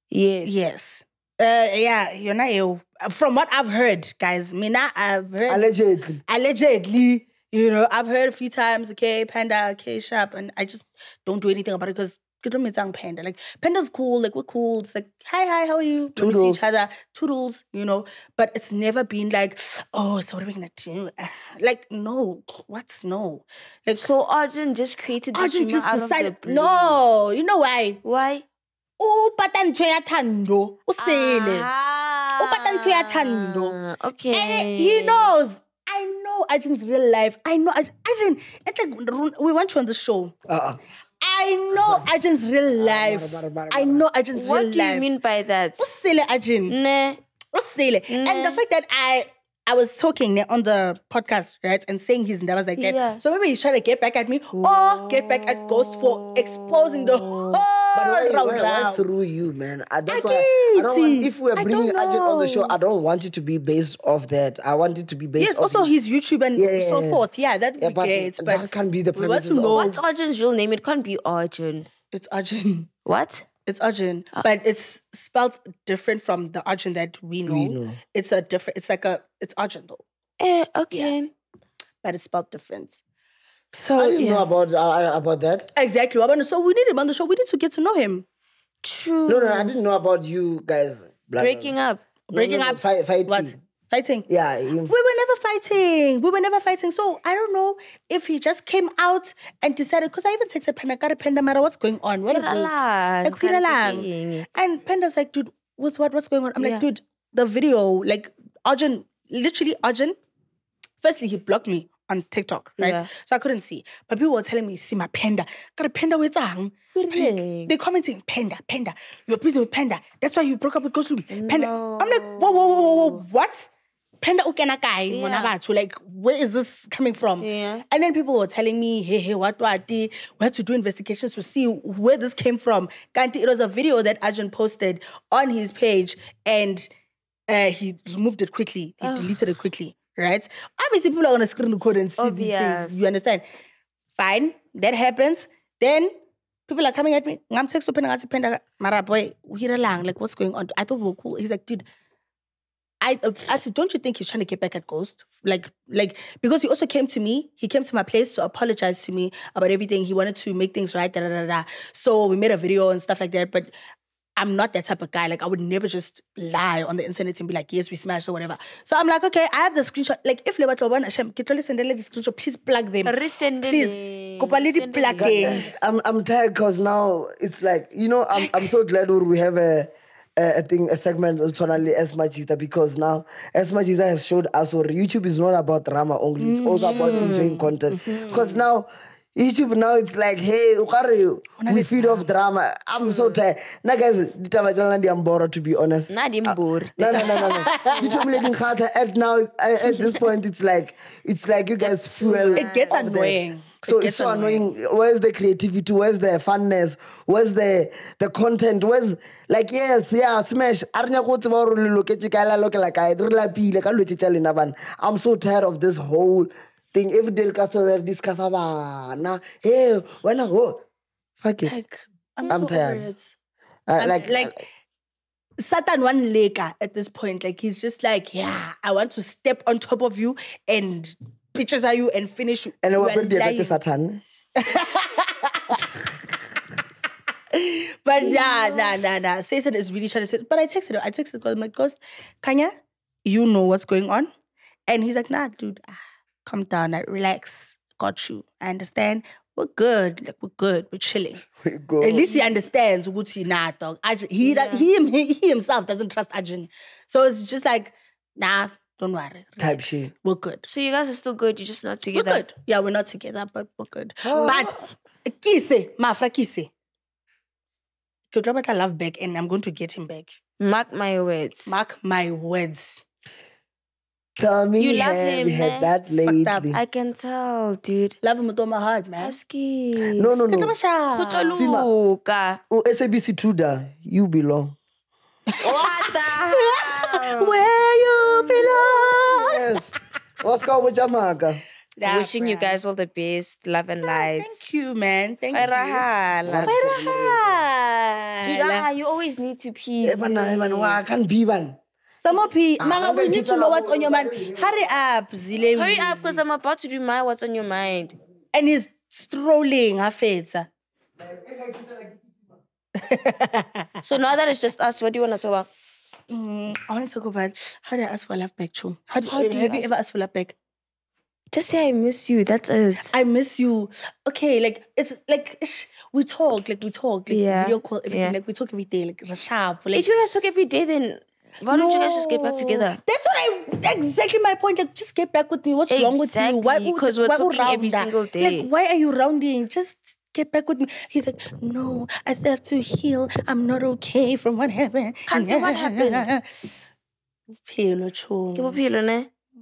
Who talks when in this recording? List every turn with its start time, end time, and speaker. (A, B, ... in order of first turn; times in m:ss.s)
0:00.1-0:00.5 A
0:00.4-0:05.7 B
0:05.5-0:06.2 C
0:06.3-0:24.1 B
0:16.2-0:16.6 C
0:24.0-0:27.0 A
0:25.3-0:28.0 B
0:28.0-0:28.4 A
0:29.0-0:31.7 B
0:31.0-0:35.3 A
0:32.4-0:33.8 B
0:34.3-0:40.3 B
0:40.5-0:40.8 C
0:41.2-0:45.1 B
0:41.7-0:42.1 C
0:42.8-0:44.0 C
0:44.3-0:45.9 A
0:45.8-0:46.8 B
0:46.7-0:47.2 A
0:47.5-0:59.0 B
0:48.1-0:48.6 A
0:52.8-0:53.2 A
0:54.5-0:57.6 A
0:57.9-1:05.9 C
1:00.1-1:02.8 B
1:05.4-1:10.0 B
1:06.6-1:07.3 C
1:07.8-1:09.8 C
1:09.7-1:11.9 A
1:12.1-1:12.9 B
1:13.0-1:13.5 A
1:13.6-1:20.0 B
1:17.4-1:18.0 C
1:20.4-1:21.3 A
1:22.0-1:23.0 B
1:23.7-1:24.5 B
1:24.0-1:25.7 C
1:25.8-1:28.2 B
1:28.8-1:29.7 A
1:29.3-1:31.7 C
1:31.4-1:32.0 A
1:32.3-1:34.3 B
1:32.3-1:33.6 C
1:34.3-1:34.9 C
1:34.8-1:50.2 B
1:42.3-1:44.5 A
1:46.6-1:46.8 A
1:51.0-2:03.7 B
1:52.8-1:53.1 A
1:56.9-1:57.7 A
2:01.3-2:03.2 A
2:04.2-2:16.9 B
2:05.1-2:05.5 A
2:07.4-2:07.8 A
2:17.5-2:23.4 B
2:19.0-2:19.4 A
2:22.2-2:23.0 A
2:24.2-2:26.1 B
2:26.7-2:31.8 B
2:33.0-2:43.7 B
2:44.4-2:55.6 B
2:53.0-2:55.7 A
2:55.2-3:40.8 C
2:58.3-2:58.7 B
3:06.4-3:08.6 B
3:06.8-3:07.7 A
3:11.6-3:12.3 B
3:13.0-3:13.3 B
3:16.1-3:18.3 A
3:17.1-3:18.2 B
3:22.1-3:23.2 A
3:22.4-3:24.7 B
3:41.4-3:41.7 C
3:41.6-3:43.3 B
3:42.5-3:43.0 C
3:43.9-3:44.4 C
3:44.0-3:44.6 B
3:45.6-3:53.8 B
3:52.8-3:54.2 C
3:54.6-3:55.9 B
3:57.5-4:02.7 B
3:58.2-3:58.9 A
4:03.2-4:04.3 B
4:04.9-4:11.4 B
4:11.6-4:12.3 C
4:12.0-4:20.7 B
4:14.4-4:14.9 A
4:19.6-4:20.1 C
4:20.7-4:22.4 A
4:22.1-4:26.7 B
4:24.2-4:24.8 C
4:28.3-4:30.4 B
4:30.6-4:31.8 A
4:31.7-4:33.0 B
4:34.4-4:36.8 C
4:34.8-4:35.9 A
4:36.2-4:36.7 B
4:36.7-4:38.2 A
4:38.2-4:39.4 B
4:39.2-4:40.4 A
4:40.2-4:40.7 C
4:40.4-4:41.6 B
4:41.1-4:42.6 A
4:41.5-4:41.9 C
4:42.7-4:44.8 C
4:45.5-4:49.6 B
4:45.6-4:48.8 A
4:48.8-4:49.9 C
4:50.4-4:51.6 C
4:52.0-4:52.8 B
4:52.0-4:54.6 A
4:54.0-4:56.0 B
4:55.5-4:56.9 A
4:56.4-4:57.6 C
4:56.7-4:58.9 B
4:58.4-5:01.0 A
5:00.0-5:01.8 C
5:02.2-5:06.2 B
5:02.8-5:04.7 C
5:05.7-5:08.2 A
5:08.5-5:10.7 B
5:11.2-5:12.4 C
5:13.0-5:13.9 B
5:14.0-5:15.7 A
5:16.3-5:20.5 B
5:19.2-5:19.9 A
5:21.5-5:23.1 A
5:23.0-5:30.1 B
5:27.3-5:28.4 A
5:29.9-5:33.0 A
5:31.7-5:46.7 B
5:35.9-5:38.7 A
5:45.3-5:46.3 A
5:47.6-5:48.8 B
5:48.5-5:49.3 A